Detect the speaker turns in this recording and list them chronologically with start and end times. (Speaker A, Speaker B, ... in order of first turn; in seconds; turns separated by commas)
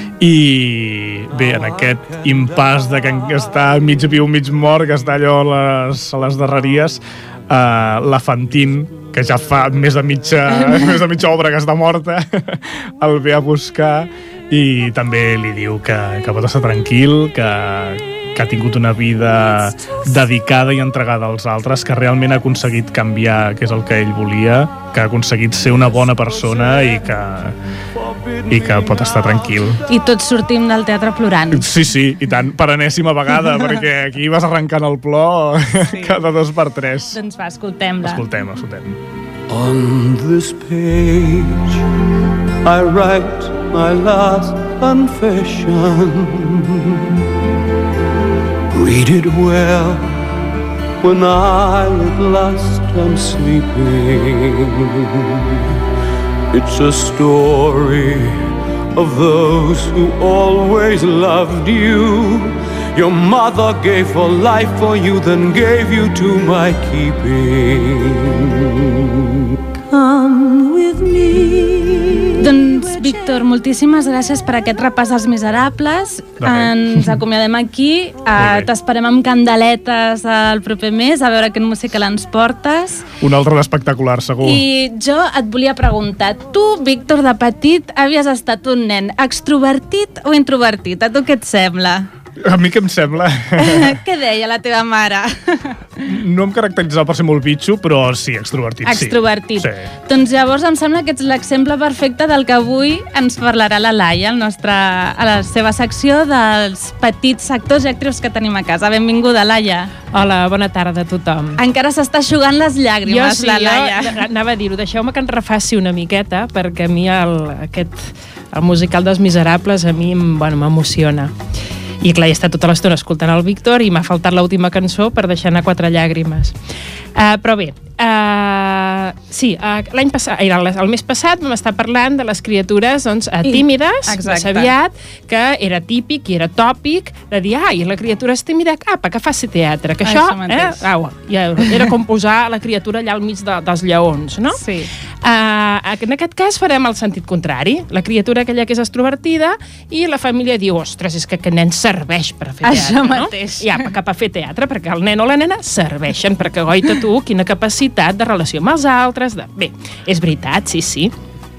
Speaker A: 0.2-27.6, Speaker A: 28.5-29.9, Speaker B: 29.9-31.7, Speaker A: 31.5-37.2, Speaker B: 35.8-36.2, Speaker B: 37.1-38.2, Speaker A: 38.0-39.0, Speaker C: 39.5-41.8, Speaker C: 42.6-47.0, Speaker C: 48.7-50.0, Speaker C: 51.0-55.6, Speaker C: 56.5-69.3, Speaker D: 69.9-73.3, Speaker B: 72.4-83.0, Speaker A: 76.4-77.2, Speaker A: 78.4-78.7, Speaker A: 83.2-84.6, Speaker B: 84.4-92.1, Speaker A: 92.4-94.0, Speaker B: 93.6-96.1, Speaker A: 96.0-99.9, Speaker B: 98.8-109.9, Speaker E: 110.1-111.6, Speaker B: 111.6-114.2, Speaker E: 113.1-121.3, Speaker E: 122.0-126.6, Speaker E: 127.2-144.6, Speaker B: 133.4-134.7, Speaker B: 140.0-140.8, Speaker B: 144.5-144.9, Speaker E: 145.2-161.1, Speaker B: 152.6-153.9